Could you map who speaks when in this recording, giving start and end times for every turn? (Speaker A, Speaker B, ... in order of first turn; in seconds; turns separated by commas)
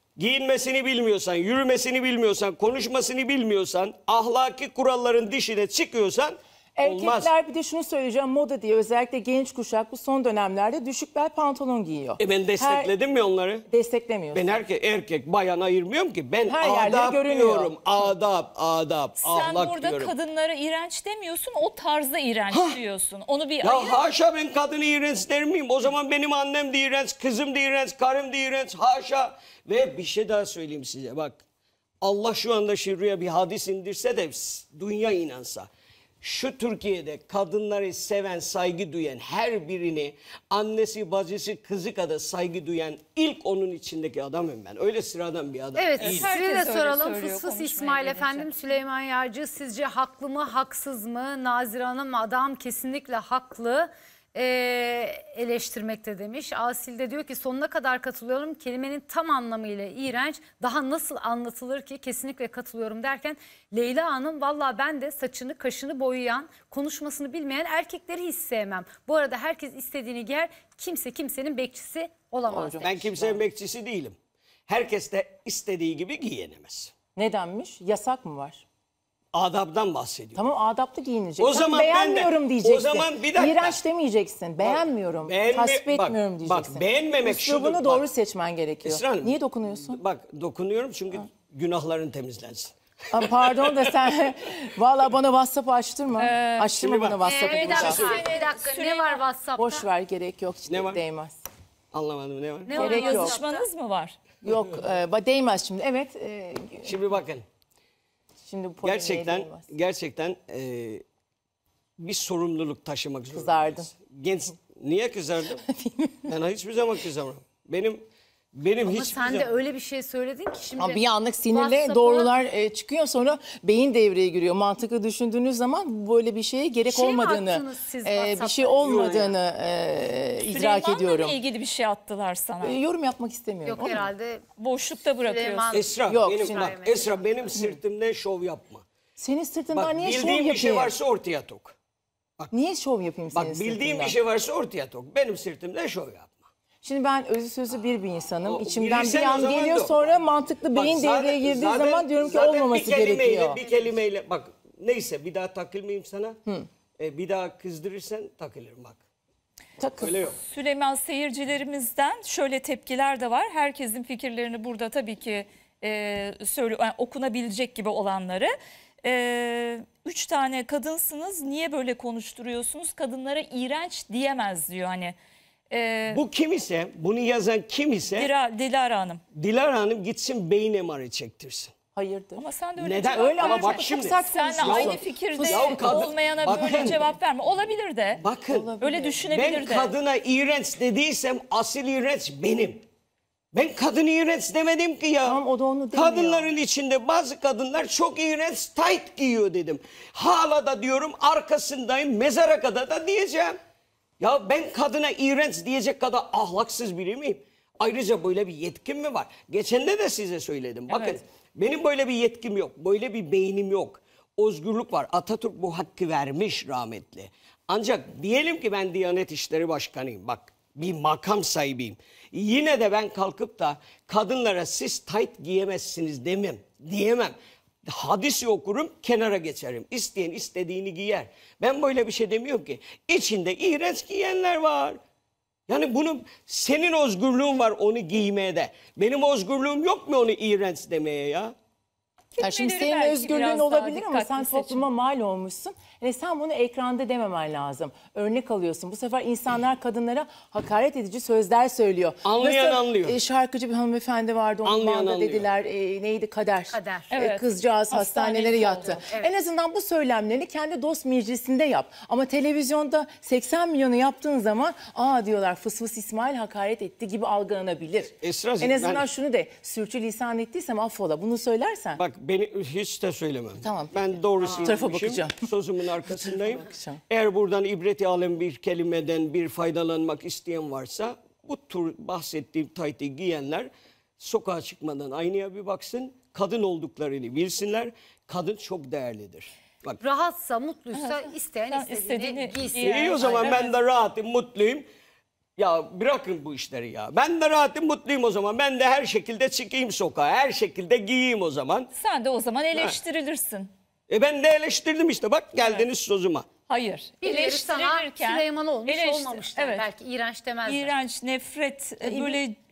Speaker A: 0.2-7.3, Speaker B: 6.8-12.9, Speaker A: 12.2-13.6, Speaker B: 13.7-14.6, Speaker A: 14.3-20.1, Speaker B: 16.5-17.8, Speaker C: 19.2-24.0, Speaker A: 22.5-22.8, Speaker A: 23.6-31.4, Speaker A: 32.0-35.7, Speaker A: 36.2-46.3, Speaker D: 45.8-72.8, Speaker C: 46.0-48.5, Speaker B: 72.5-72.8, Speaker A: 72.5-74.2, Speaker A: 74.7-76.9, Speaker B: 77.2-78.6, Speaker A: 79.3-80.5, Speaker B: 80.3-90.0, Speaker A: 81.4-83.8, Speaker A: 84.6-88.1, Speaker A: 88.8-93.9, Speaker B: 93.1-98.2, Speaker C: 96.2-96.7, Speaker A: 96.7-98.0, Speaker D: 97.2-99.9, Speaker C: 97.4-99.2, Speaker B: 99.6-101.4, Speaker A: 100.7-101.0, Speaker A: 101.9-103.2, Speaker D: 102.7-103.6, Speaker C: 102.8-104.2, Speaker B: 102.8-103.4, Speaker B: 104.5-107.0, Speaker A: 106.8-107.5, Speaker B: 108.5-109.7, Speaker A: 108.8-111.0, Speaker A: 112.0-115.6, Speaker B: 113.3-113.9, Speaker B: 115.8-116.1, Speaker A: 116.3-118.0, Speaker A: 118.5-119.5, Speaker D: 118.8-122.3, Speaker B: 120.8-131.4, Speaker D: 126.9-129.3, Speaker A: 128.8-129.3, Speaker C: 130.5-132.8, Speaker B: 132.6-134.1, Speaker D: 133.6-134.4, Speaker C: 134.6-135.8, Speaker D: 135.2-137.3, Speaker A: 135.7-138.8, Speaker B: 136.1-136.6, Speaker B: 139.2-140.9, Speaker A: 139.7-141.8, Speaker B: 142.5-144.1, Speaker A: 143.3-146.5, Speaker B: 146.8-153.6, Speaker A: 148.4-150.2, Speaker A: 150.7-156.4, Speaker A: 157.0-159.0, Speaker B: 159.8-160.2, Speaker A: 160.0-160.4, Speaker C: 160.4-175.2, Speaker C: 175.7-176.2, Speaker A: 176.1-178.3, Speaker C: 178.2-179.2, Speaker A: 179.3-181.7, Speaker B: 182.0-182.4, Speaker C: 182.4-183.7, Speaker A: 182.8-187.0, Speaker B: 183.1-186.9, Speaker D: 183.4-183.8, Speaker C: 184.3-188.2, Speaker A: 188.2-188.7, Speaker B: 188.5-189.3, Speaker C: 188.8-189.9, Speaker A: 189.3-192.8, Speaker A: 193.5-203.6, Speaker B: 195.2-196.5, Speaker A: 204.2-227.4, Speaker C: 210.9-211.2, Speaker A: 227.9-235.0, Speaker A: 235.7-241.5, Speaker C: 242.4-244.9, Speaker B: 242.4-272.0, Speaker A: 252.2-253.2, Speaker A: 254.6-255.5, Speaker D: 256.7-257.1, Speaker C: 257.1-259.0, Speaker D: 258.9-259.3, Speaker A: 268.2-269.1, Speaker A: 272.0-290.0, Speaker B: 273.6-275.4, Speaker B: 276.1-277.0, Speaker D: 290.0-293.7, Speaker C: 290.9-293.7, Speaker A: 292.8-294.9, Speaker A: 295.6-301.9, Speaker C: 301.9-303.7, Speaker A: 304.1-306.5, Speaker C: 305.6-305.9, Speaker C: 306.7-309.9, Speaker D: 307.2-310.9, Speaker C: 310.7-312.6, Speaker B: 312.0-312.4